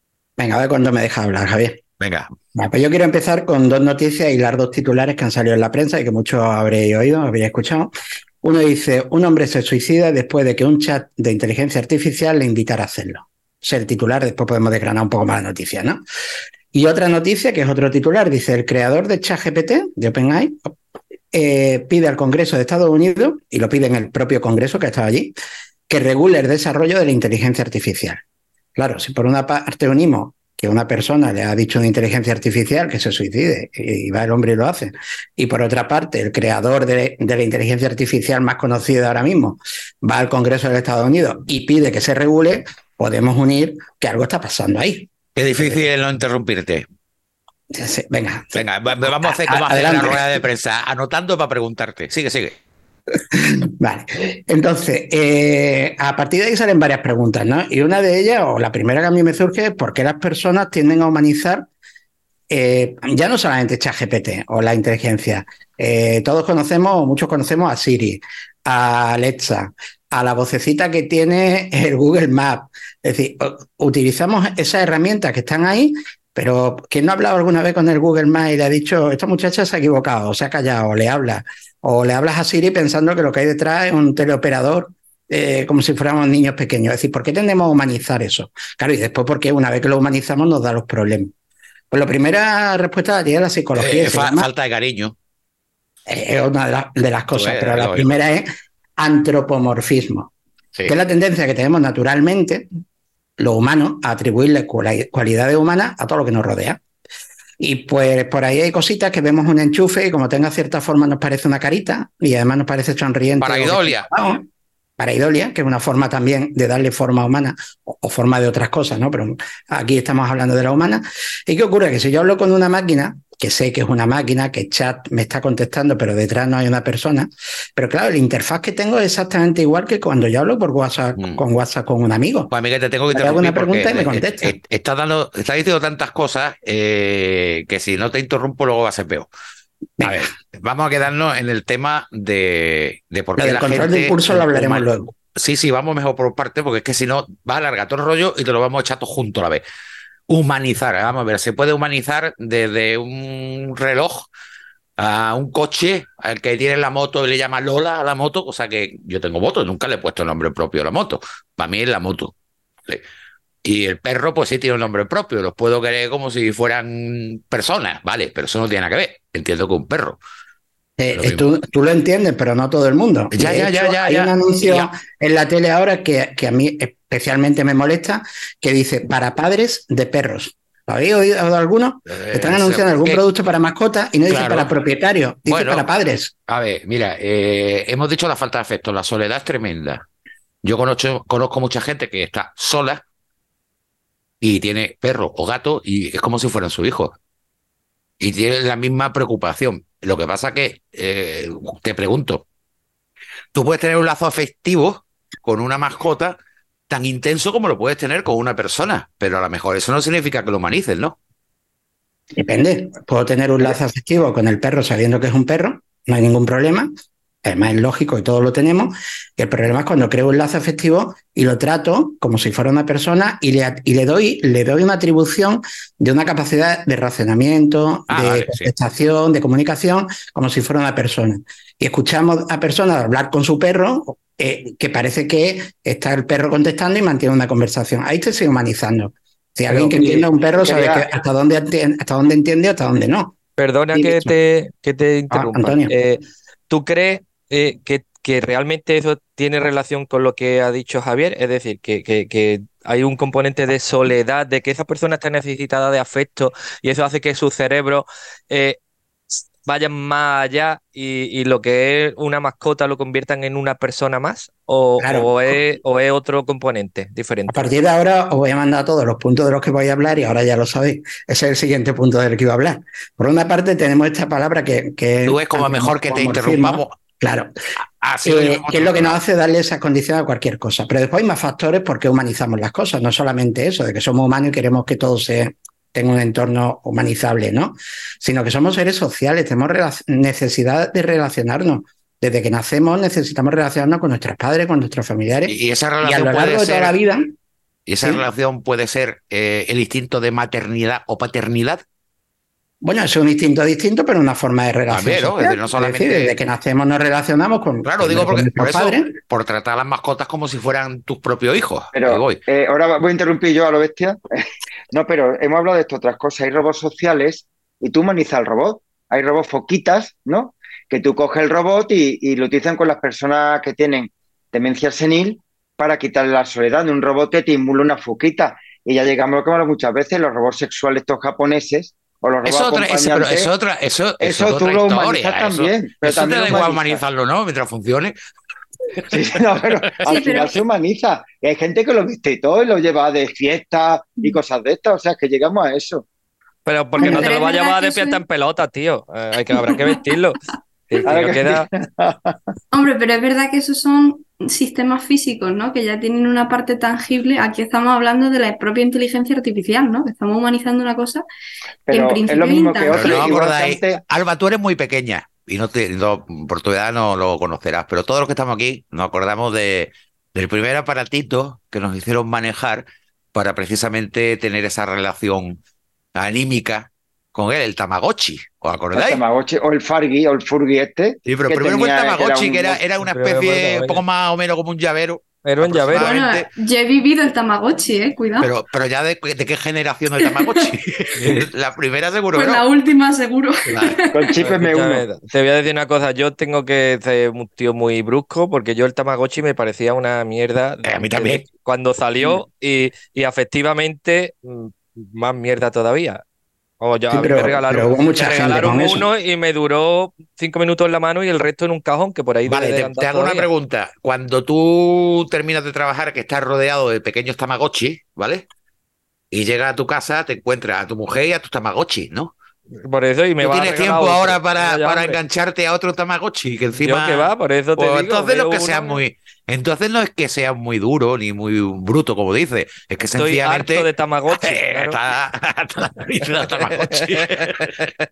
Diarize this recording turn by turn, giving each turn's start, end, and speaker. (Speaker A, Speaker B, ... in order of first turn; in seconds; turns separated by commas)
Speaker A: 0.4-1.8, Speaker B: 2.0-2.3, Speaker A: 2.5-7.9, Speaker A: 8.4-16.0, Speaker A: 16.7-20.7, Speaker A: 21.3-25.3, Speaker A: 25.9-28.2, Speaker A: 28.7-45.1, Speaker B: 45.4-46.8, Speaker A: 47.7-50.4, Speaker B: 48.5-52.5, Speaker A: 53.3-61.7, Speaker A: 62.5-91.3, Speaker A: 91.9-94.5, Speaker B: 93.8-95.1, Speaker A: 96.1-98.5, Speaker B: 97.3-98.1, Speaker A: 99.0-100.3, Speaker A: 100.9-102.7, Speaker A: 103.4-106.8, Speaker A: 107.6-114.4, Speaker B: 113.4-114.1, Speaker A: 115.0-132.5, Speaker B: 132.5-139.3, Speaker A: 133.1-134.6, Speaker A: 140.0-140.3, Speaker B: 140.0-149.6, Speaker A: 143.4-145.1, Speaker B: 150.3-154.3, Speaker B: 155.0-162.3, Speaker B: 163.6-170.2, Speaker A: 171.0-186.3, Speaker B: 171.1-171.5, Speaker B: 173.3-174.9, Speaker B: 182.1-183.2, Speaker B: 184.3-184.7, Speaker B: 185.5-185.8, Speaker B: 186.5-190.0, Speaker B: 190.6-193.0, Speaker B: 194.4-197.2, Speaker B: 198.2-202.4, Speaker B: 203.5-206.4, Speaker B: 206.9-211.2, Speaker A: 212.3-216.9, Speaker A: 217.4-243.3, Speaker B: 228.1-228.7, Speaker C: 239.7-240.3, Speaker D: 240.6-241.0, Speaker C: 243.6-258.8, Speaker A: 243.9-244.3, Speaker A: 245.3-245.9, Speaker C: 259.3-267.7, Speaker A: 265.0-265.6, Speaker A: 267.5-277.5, Speaker B: 275.2-276.9, Speaker B: 277.8-279.2, Speaker A: 278.2-297.3, Speaker B: 295.5-296.9, Speaker B: 297.9-301.8, Speaker A: 302.8-309.1, Speaker B: 304.9-306.4, Speaker B: 307.8-312.4, Speaker D: 311.9-333.5, Speaker B: 332.4-338.1, Speaker D: 334.2-337.0, Speaker B: 338.9-339.4, Speaker D: 339.1-346.0, Speaker B: 340.0-340.4, Speaker E: 340.0-340.6, Speaker C: 346.6-351.7, Speaker E: 346.9-348.2, Speaker D: 351.1-352.4, Speaker E: 352.7-361.2, Speaker D: 361.9-364.0, Speaker E: 361.9-363.3, Speaker B: 362.9-375.6, Speaker B: 376.1-379.2, Speaker D: 378.9-382.8, Speaker B: 381.2-386.5, Speaker C: 383.0-384.0, Speaker C: 385.4-386.1, Speaker E: 385.9-388.5, Speaker B: 388.4-392.7, Speaker E: 390.2-390.7, Speaker E: 392.3-394.4, Speaker B: 393.7-394.0, Speaker D: 394.1-395.0, Speaker C: 394.4-406.2, Speaker B: 400.9-401.4, Speaker C: 406.8-413.5, Speaker A: 407.1-409.1, Speaker B: 412.4-418.4, Speaker B: 419.3-422.3, Speaker C: 422.8-425.2, Speaker B: 423.4-437.9, Speaker C: 426.8-429.0, Speaker C: 433.2-435.0, Speaker C: 436.2-437.6